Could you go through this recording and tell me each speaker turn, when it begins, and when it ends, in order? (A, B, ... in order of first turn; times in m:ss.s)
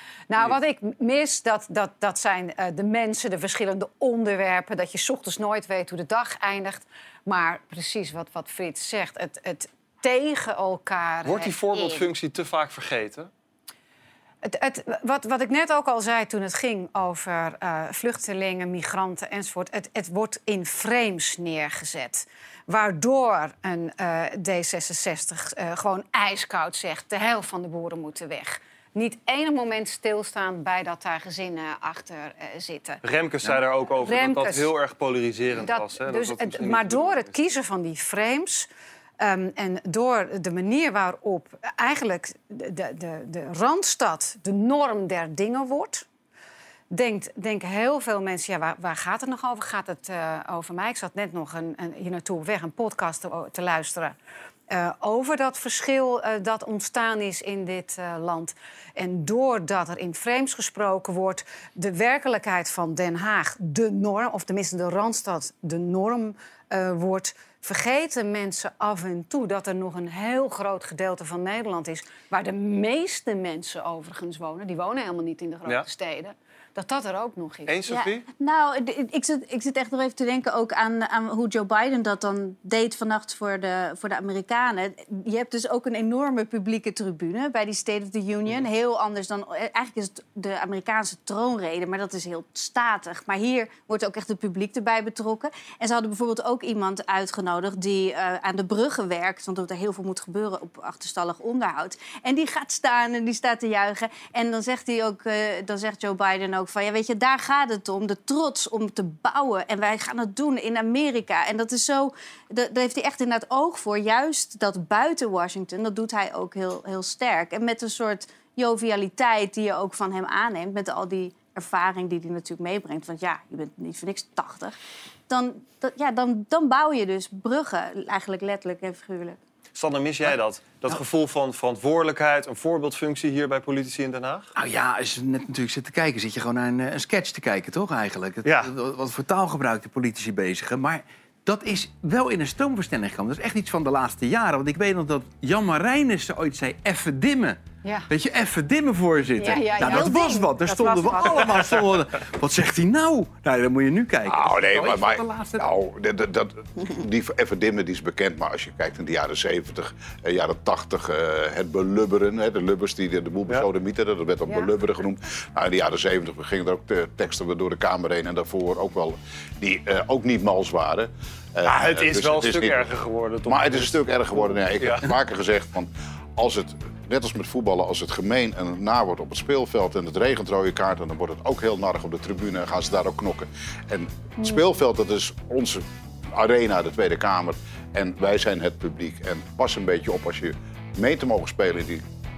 0:00.3-0:12.0 A
0:11.2-0:13.3 B
0:14.4-0:33.0 A
0:33.0-0:37.3 B
0:34.0-0:34.7 A
0:35.6-0:38.7 A
0:39.2-0:46.0 A
0:46.9-0:54.1 A
0:54.7-1:17.8 A
1:17.7-1:18.2 B
1:17.9-2:04.7 C
2:05.3-2:09.4 C
2:09.7-2:14.5 B
2:14.6-2:27.6 D
2:18.4-2:18.7 B
2:28.1-2:35.6 D
2:29.4-2:31.5 A
2:29.8-2:30.2 C
2:34.3-2:52.9 E
2:51.6-2:55.1 B
2:53.5-3:12.0 E